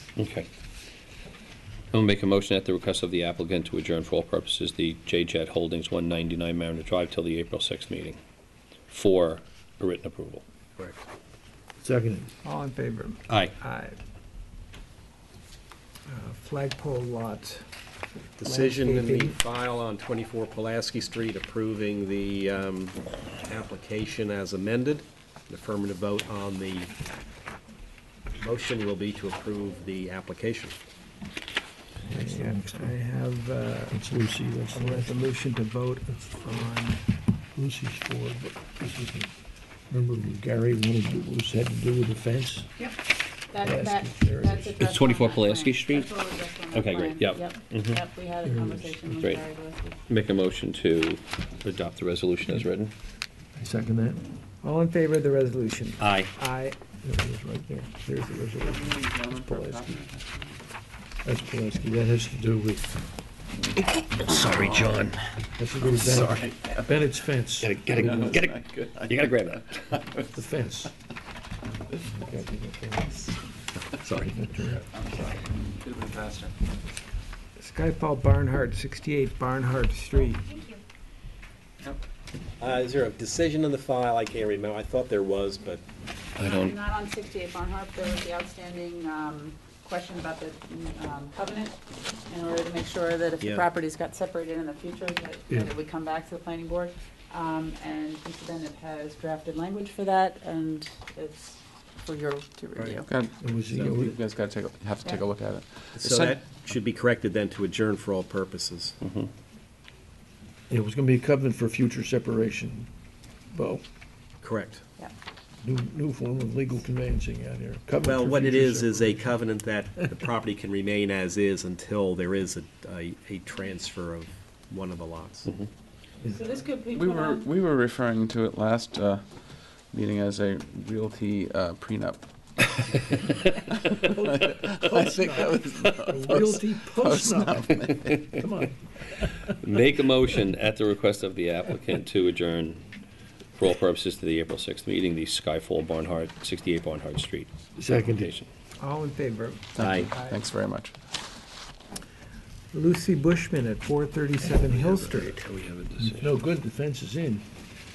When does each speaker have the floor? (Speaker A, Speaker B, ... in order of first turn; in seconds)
Speaker A: 0.2-0.5, 1.9-8.2, 8.9-10.4, 13.3-13.5, 44.8-48.0, 49.1-49.4, 50.1-52.9, 56.0-56.3, 63.8-65.3, 65.8-66.3, 67.6-70.0, 86.3-86.8, 109.0-109.3, 139.5-142.8, 143.5-148.5, 149.8-150.1, 154.4-156.3
Speaker B: 10.8-11.0, 18.4-26.9, 28.4-30.8, 82.6-85.8, 102.8-103.0, 103.7-104.1, 105.9-109.0, 114.4-114.8, 118.0-125.5
Speaker C: 11.8-12.3, 32.1-32.9, 33.9-35.3, 37.5-39.3, 39.9-42.7, 43.6-44.8, 48.4-49.1, 53.5-54.2, 57.0-59.0, 61.2-62.9, 65.6-68.2, 70.2-70.9, 72.0-73.3, 74.0-74.8, 103.4-104.1, 110.7-112.9, 113.5-113.8, 115.6-119.2, 134.1-139.2, 147.8-148.4, 156.0-157.4
Speaker D: 12.4-13.9, 16.1-17.6, 18.4-19.4, 32.1-34.1, 34.7-37.0, 54.6-56.8, 59.3-59.8, 77.6-80.5, 148.8-150.4, 152.7-155.4
Speaker E: 42.8-50.0, 86.4-103.1, 126.3-127.5
Speaker F: 58.6-60.6, 66.0-67.0, 67.9-70.3, 74.8-76.5, 103.1-103.4, 103.9-106.4, 126.9-129.3, 129.9-138.2, 149.7-150.9